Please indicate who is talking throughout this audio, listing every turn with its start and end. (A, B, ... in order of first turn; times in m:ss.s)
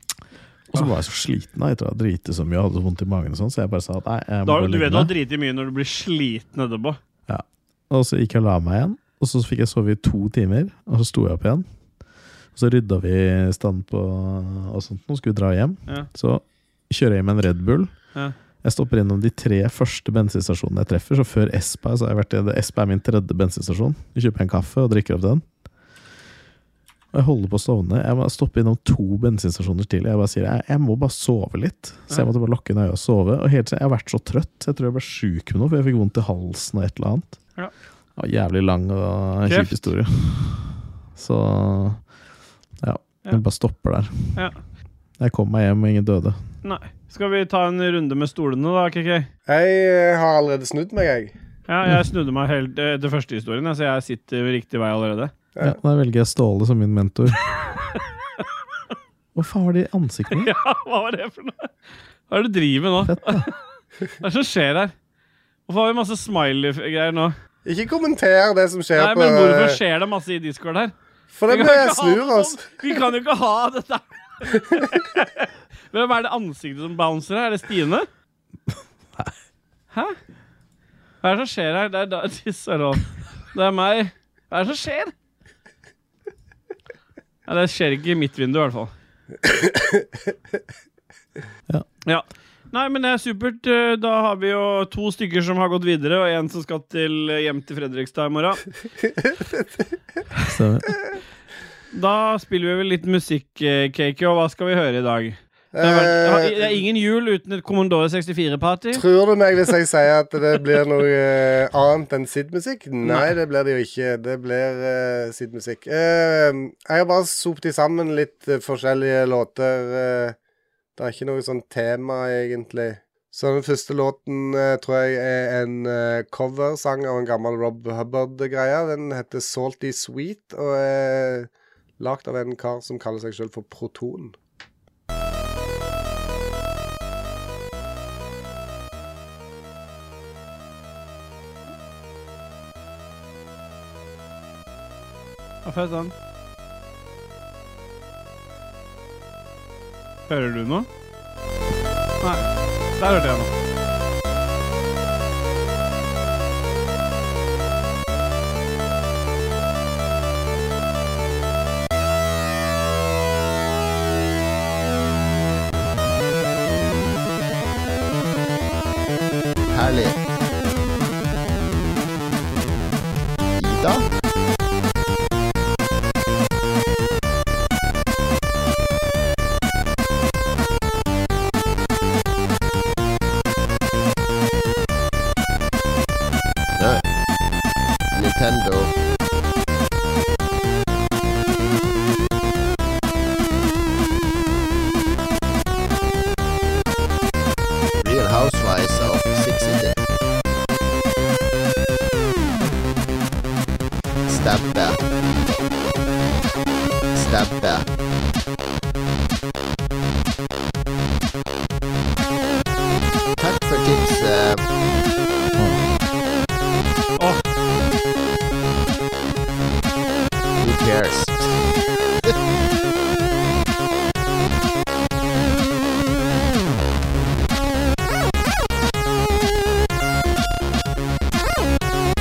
0:00.7-0:05.1 A
0:04.4-0:07.0 B
0:07.3-0:11.7 A
0:12.5-0:17.9 A
0:18.6-0:25.4 A
0:27.1-0:37.4 A
0:38.2-0:42.0 A
0:39.5-0:39.9 B
0:42.8-0:44.4 A
0:45.2-0:46.4 A
0:46.6-0:49.3 B
0:49.5-0:51.3 C
0:51.7-0:55.3 B
0:55.6-0:57.4 A
0:59.4-1:00.5 A
1:00.3-1:01.7 B
1:02.3-1:03.6 B
1:03.0-1:03.5 A
1:04.2-1:04.9 B
1:05.7-1:07.4 B
1:07.6-1:09.8 C
1:09.0-1:10.9 B
1:11.3-1:12.7 C
1:11.5-1:18.1 B
1:19.9-1:20.2 B
1:21.2-1:25.1 B
1:27.5-1:28.9 B
1:29.4-1:30.0 C
1:32.1-1:38.6 B
1:40.5-1:41.0 A
1:41.9-1:49.0 B
1:45.7-1:46.8 C
1:48.9-2:00.4 C
1:53.0-1:53.3 B
2:01.0-2:11.5 C
2:12.0-2:14.4 C
2:25.6-2:26.1 B
2:30.3-2:30.9 B
2:32.2-2:33.5 B
2:49.7-2:50.2 D
2:53.6-2:54.1 D
3:06.8-3:07.1 D
3:08.1-3:08.9 D
3:18.0-3:20.0 D
3:24.3-3:25.0 D
3:27.2-3:27.9 D
3:33.4-3:34.7 D
3:37.2-3:37.4 B
3:40.6-3:41.6 D